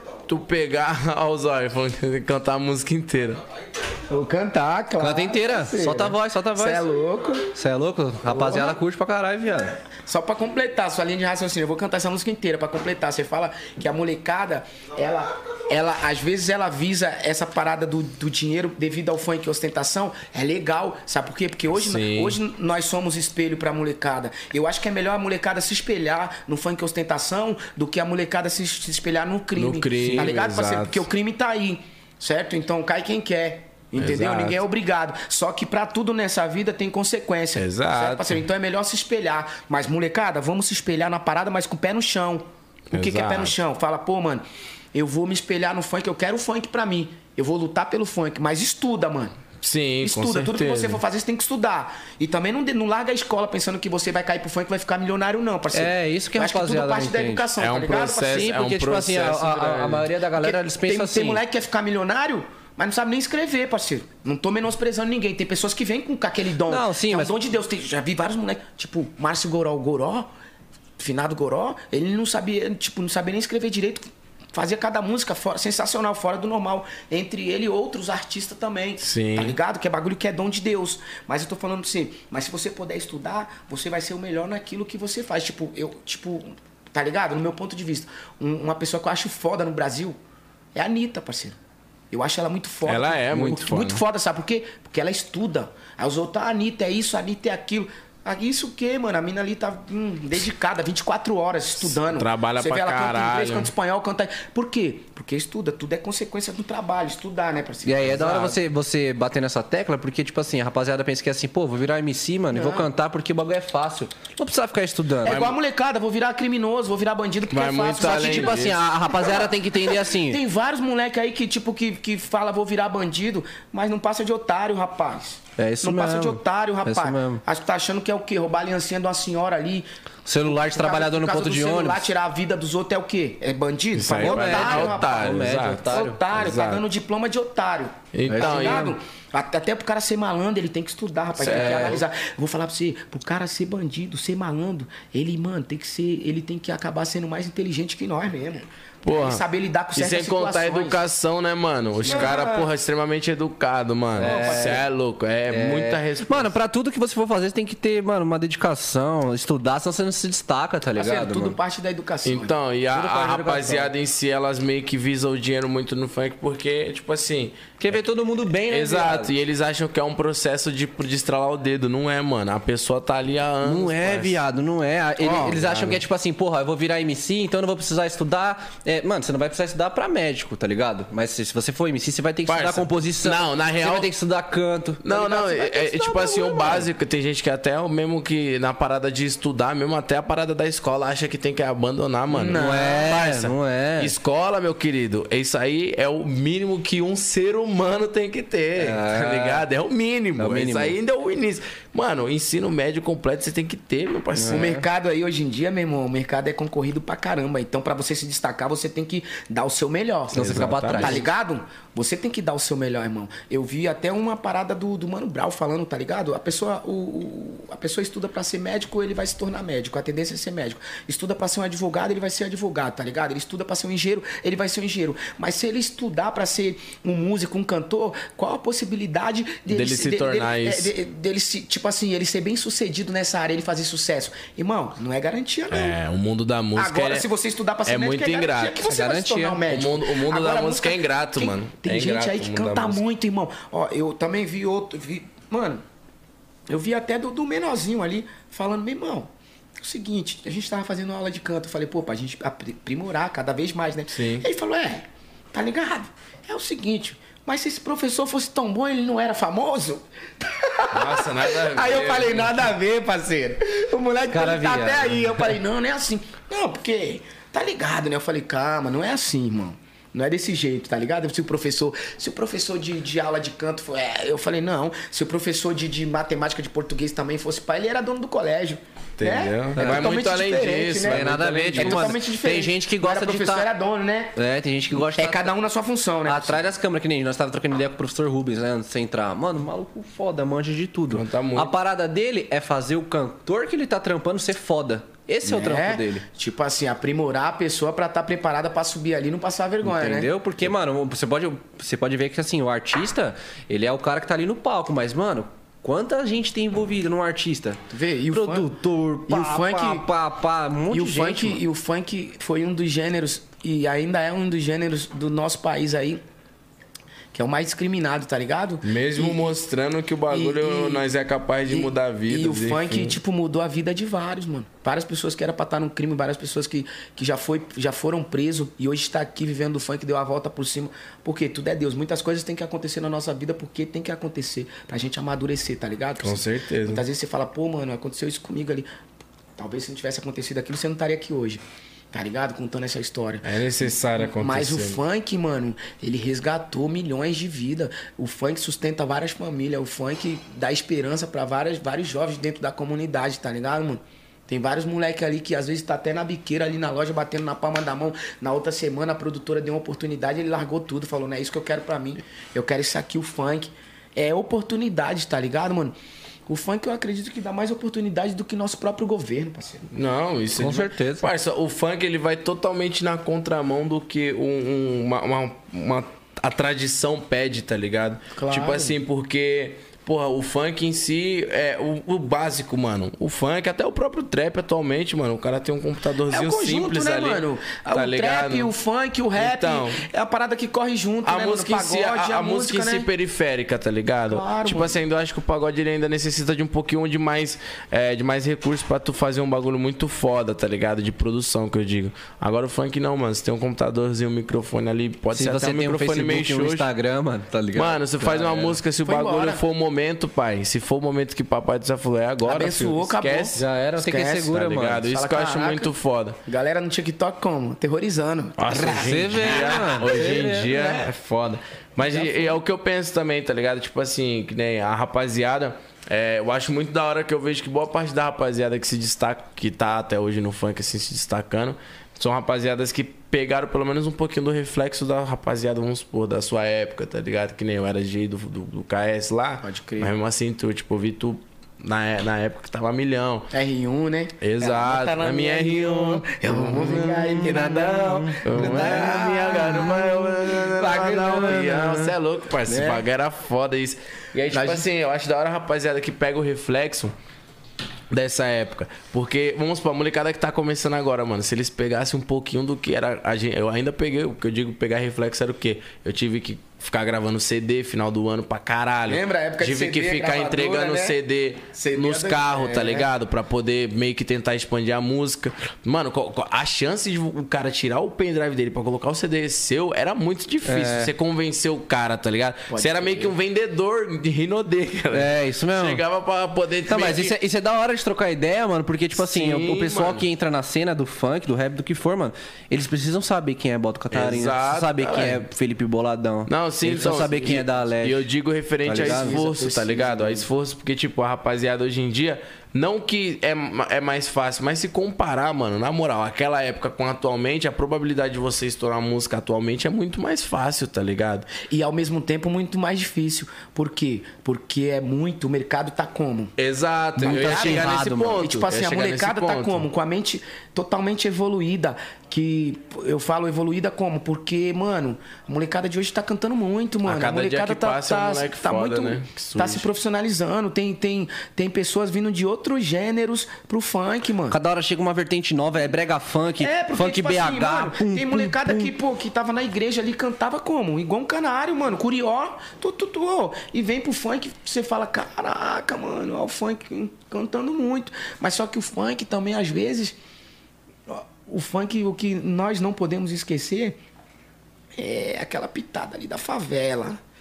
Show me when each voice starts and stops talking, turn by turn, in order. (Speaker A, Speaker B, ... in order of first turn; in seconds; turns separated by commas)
Speaker A: 0.3-3.4, Speaker B: 4.1-7.5, Speaker C: 5.0-6.9, Speaker C: 7.5-9.8, Speaker B: 8.3-8.8, Speaker B: 10.1-49.4, Speaker A: 21.7-22.4, Speaker A: 29.6-31.1, Speaker A: 34.0-34.6, Speaker A: 37.5-38.4, Speaker A: 42.9-43.5, Speaker A: 49.6-51.0, Speaker B: 50.0-58.5, Speaker C: 55.7-57.5, Speaker A: 57.6-60.0, Speaker C: 58.3-61.4, Speaker B: 60.3-70.3, Speaker C: 66.7-67.3, Speaker B: 71.0-90.2, Speaker A: 79.0-79.6, Speaker B: 90.8-91.6, Speaker B: 92.1-108.3, Speaker A: 92.9-94.0, Speaker A: 101.9-103.7, Speaker C: 107.8-115.4, Speaker A: 108.1-108.6, Speaker B: 112.5-112.9, Speaker B: 115.2-129.9, Speaker A: 115.3-115.6, Speaker A: 117.5-118.8, Speaker C: 118.0-120.4, Speaker C: 125.6-127.4, Speaker C: 130.3-132.1, Speaker B: 130.4-151.0, Speaker A: 133.9-136.8, Speaker C: 134.1-136.2, Speaker A: 138.1-138.9, Speaker C: 138.3-138.9, Speaker A: 141.4-142.0, Speaker C: 141.5-142.0, Speaker A: 149.0-149.4, Speaker A: 149.9-156.5, Speaker B: 152.0-152.7, Speaker C: 154.2-154.8, Speaker B: 154.2-154.8, Speaker C: 155.5-161.6, Speaker B: 161.0-162.5, Speaker A: 162.2-168.0, Speaker C: 162.9-163.9, Speaker C: 167.8-169.3, Speaker A: 168.7-174.4, Speaker C: 173.6-185.0, Speaker A: 175.2-176.0, Speaker A: 182.5-184.1, Speaker A: 185.0-204.7, Speaker B: 185.1-186.9, Speaker B: 192.3-193.1, Speaker C: 192.5-194.1, Speaker C: 198.8-199.7, Speaker C: 200.4-201.0, Speaker C: 204.3-204.8, Speaker B: 204.5-236.0, Speaker A: 210.3-211.2, Speaker C: 210.3-211.2, Speaker A: 229.7-230.9, Speaker A: 235.7-237.3, Speaker B: 236.8-245.8, Speaker A: 237.9-238.9, Speaker C: 238.8-239.6, Speaker A: 239.7-243.0, Speaker B: 246.7-284.4, Speaker A: 254.1-254.5, Speaker A: 260.9-262.7, Speaker C: 264.3-265.5, Speaker A: 279.2-282.2, Speaker C: 279.8-280.1, Speaker C: 281.1-283.7, Speaker C: 284.4-285.5, Speaker B: 285.0-286.6, Speaker C: 286.2-296.2, Speaker A: 291.1-291.7, Speaker B: 295.4-300.3, Speaker C: 299.8-311.6, Speaker B: 307.9-310.1, Speaker B: 310.9-316.2, Speaker B: 317.3-319.6, Speaker A: 318.8-323.2, Speaker B: 320.3-321.1, Speaker B: 321.6-338.9, Speaker A: 336.2-337.0, Speaker B: 339.6-365.9, Speaker A: 343.4-345.0, Speaker B: 366.5-369.9, Speaker A: 369.9-388.7, Speaker C: 370.6-371.3, Speaker B: 378.3-379.0, Speaker B: 386.3-393.1, Speaker A: 389.4-390.0, Speaker A: 391.2-406.9, Speaker B: 394.3-395.0, Speaker C: 405.3-408.8, Speaker A: 407.7-413.6, Speaker B: 409.0-409.6, Speaker B: 412.4-415.9, Speaker C: 413.6-415.1, Speaker A: 414.5-416.4, Speaker B: 416.4-421.1, Speaker A: 418.6-443.5, Speaker C: 418.7-420.7, Speaker B: 422.0-422.6, Speaker B: 439.6-440.1, Speaker B: 443.5-451.6, Speaker A: 444.4-457.1, Speaker C: 447.4-452.1, Speaker B: 452.7-453.1, Speaker B: 454.5-454.9, Speaker A: 458.1-487.4, Speaker B: 469.1-471.2, Speaker B: 471.7-473.1, Speaker C: 480.6-481.1, Speaker B: 482.7-483.3, Speaker C: 485.1-486.0, Speaker C: 486.9-498.2, Speaker A: 489.1-490.3, Speaker A: 494.1-495.4, Speaker A: 496.5-511.5, Speaker B: 496.9-497.6, Speaker C: 498.9-499.4, Speaker B: 498.9-500.5, Speaker B: 511.6-516.5, Speaker A: 516.6-519.9, Speaker B: 517.2-534.6, Speaker C: 517.2-518.5, Speaker A: 527.0-529.9, Speaker C: 534.5-538.9, Speaker B: 536.6-550.2, Speaker B: 551.1-554.0, Speaker B: 555.0-557.2